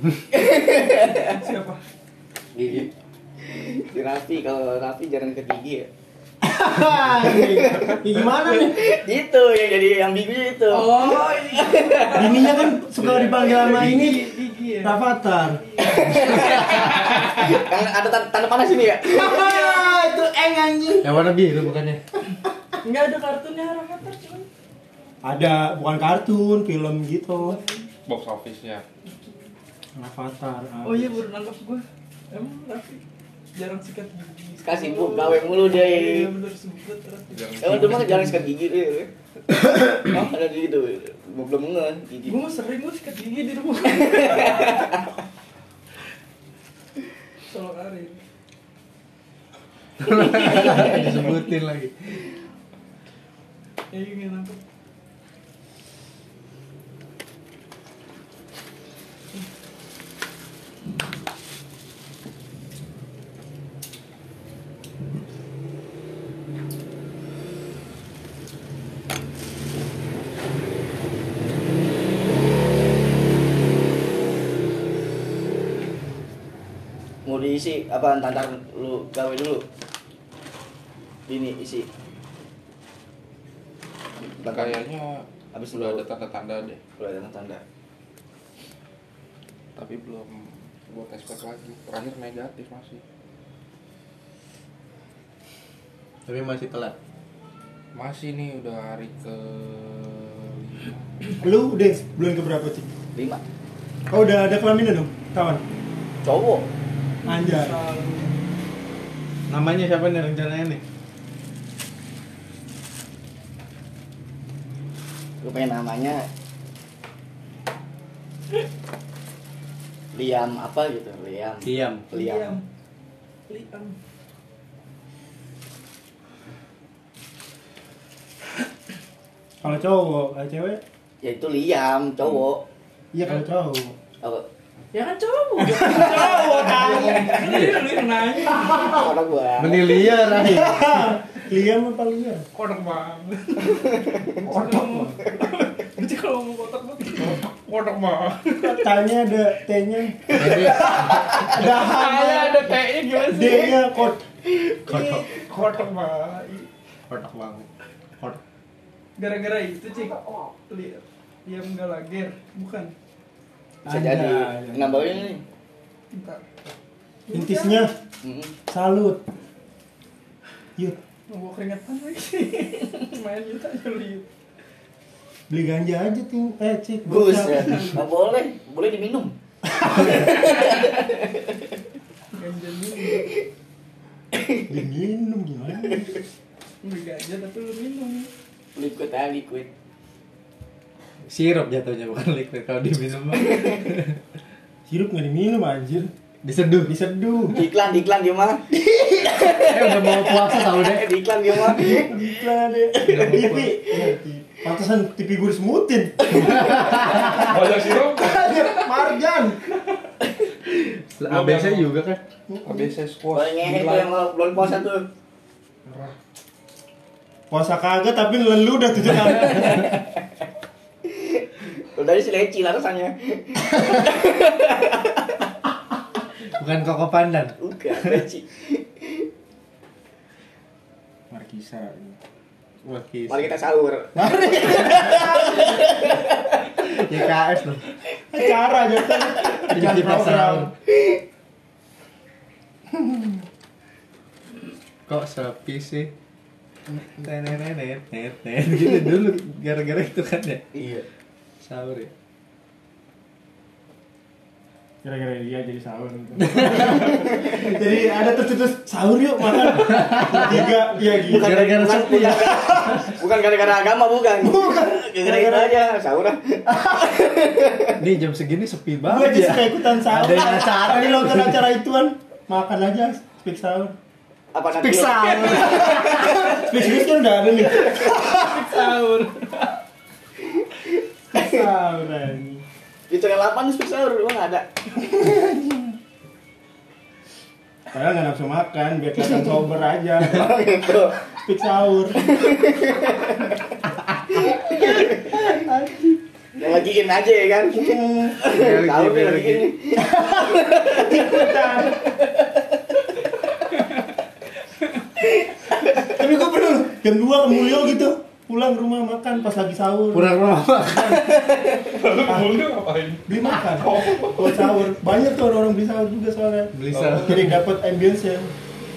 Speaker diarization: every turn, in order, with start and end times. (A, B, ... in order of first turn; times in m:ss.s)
0:00.2-0:01.4 A
0:01.3-0:01.8 B
0:02.5-0:05.9 A
0:06.4-0:08.8 C
0:07.2-0:12.4 A
0:10.7-0:12.8 B
0:12.1-0:15.6 C
0:13.0-0:13.3 D
0:13.4-0:16.6 B
0:15.8-0:19.6 A
0:19.1-0:21.2 C
0:19.3-0:19.9 B
0:21.0-0:22.0 E
0:22.8-0:24.5 B
0:25.2-0:27.6 C
0:27.3-0:27.9 B
0:28.0-0:28.8 D
0:29.0-0:29.3 B
0:30.0-0:31.2 C
0:30.8-0:33.0 B
0:33.6-0:37.5 B
0:34.6-0:36.3 A
0:37.3-0:38.4 D
0:37.6-0:39.1 A
0:39.9-0:42.4 A
0:42.2-0:44.9 B
0:43.9-0:45.1 A
0:47.5-0:48.2 B
0:50.0-0:52.2 E
0:50.2-0:51.3 B
0:53.9-0:54.6 B
1:17.2-1:19.6 A
1:21.3-1:21.9 A
1:24.2-1:24.8 A
1:24.4-1:26.8 D
1:25.5-1:26.0 A
1:27.0-1:27.6 A
1:29.8-1:33.0 D
1:36.2-1:36.9 E
1:37.9-1:41.0 D
1:41.4-1:42.9 C
1:43.1-1:43.4 A
1:44.1-1:45.6 C
1:46.2-1:46.6 A
1:47.2-1:48.3 B
1:47.2-1:47.8 C
1:49.5-1:50.8 E
1:55.4-1:56.3 A
2:00.1-2:02.6 A
2:01.6-2:02.0 E
2:02.1-2:02.6 B
2:03.5-2:04.0 B
2:09.6-2:10.8 C
2:11.2-2:12.6 A
2:13.1-2:14.0 C
2:14.9-2:19.0 B
2:15.6-2:17.4 C
2:16.0-2:17.6 A
2:18.5-2:19.0 C
2:18.7-2:20.0 A
2:19.6-2:21.2 E
2:20.1-2:22.4 C
2:22.6-2:27.4 B
2:23.9-2:24.4 A
2:24.4-2:25.2 C
2:27.2-2:28.5 D
2:28.4-2:28.9 B
2:28.6-2:34.3 C
2:30.3-2:31.4 E
2:30.8-2:33.9 B
2:34.8-2:35.2 E
2:35.0-2:36.7 B
2:37.1-2:37.7 E
2:39.2-2:42.9 B
2:43.8-2:45.4 A
2:43.8-2:45.2 C
2:46.1-2:46.4 B
2:47.3-2:47.8 B
2:47.3-2:47.9 C
2:48.2-2:48.5 A
2:48.7-2:49.2 C
2:51.3-2:54.2 B
2:55.5-2:58.0 C
2:57.0-2:59.3 A
2:57.5-2:58.0 B
2:59.8-3:00.3 C
2:59.9-3:01.6 A
3:02.3-3:03.3 B
3:04.3-3:04.7 A
3:04.7-3:06.1 C
3:06.8-3:08.3 B
3:08.7-3:09.7 A
3:11.2-3:14.2 E
3:13.4-3:13.9 A
3:14.9-3:16.1 C
3:16.4-3:16.9 E
3:16.8-3:17.6 C
3:17.5-3:18.6 A
3:18.7-3:19.4 C
3:19.2-3:24.1 A
3:19.6-3:21.1 E
3:21.6-3:29.6 C
3:26.7-3:27.3 E
3:27.0-3:28.8 D
3:30.7-3:32.2 E
3:31.2-3:31.9 D
3:32.5-3:32.8 C
3:32.6-3:34.1 D
3:33.3-3:35.1 A
3:35.9-3:36.1 D
3:37.5-3:39.9 C
3:39.4-3:40.1 A
3:41.0-3:45.4 A
3:46.6-3:48.2 E
3:47.6-3:49.3 A
3:51.3-3:52.1 C
3:52.8-3:53.5 E
3:53.3-3:56.9 A
3:54.2-3:55.8 C
3:56.8-3:57.8 E
3:58.3-4:00.7 C
3:59.2-3:59.6 A
3:59.7-4:00.7 E
4:00.9-4:01.2 A
4:02.9-4:03.3 C
4:05.1-4:06.1 E
4:07.1-4:10.6 E
4:10.7-4:11.0 A
4:11.6-4:12.1 E
4:15.0-4:23.2 C
4:16.5-4:16.9 E
4:17.3-4:17.6 A
4:19.7-4:20.7 E
4:20.5-4:28.0 A
4:21.3-4:22.6 E
4:24.4-4:25.8 C
4:26.7-4:27.1 C
4:28.0-4:31.6 E
4:29.0-4:33.9 C
4:34.5-4:36.8 A
4:34.7-4:36.4 E
4:35.2-4:38.8 C
4:37.7-4:38.1 A
4:38.3-4:39.7 B
4:40.4-4:41.7 A
4:41.3-4:42.6 C
4:43.1-4:44.6 A
4:45.0-4:45.9 C
4:47.9-4:50.5 C
4:50.2-4:51.2 A
4:51.4-4:52.2 C
4:52.2-4:53.8 A
4:54.3-4:55.5 A
4:54.7-4:56.1 C
4:56.6-5:02.2 A
4:57.7-4:58.4 C
4:58.4-4:59.7 E
5:00.0-5:02.1 C
5:05.2-5:06.1 A
5:06.1-5:11.2 C
5:10.1-5:11.6 E
5:11.4-5:12.0 A
5:11.8-5:14.8 D
5:12.2-5:12.6 C
5:13.3-5:18.5 C
5:16.7-5:17.6 E
5:16.9-5:17.6 D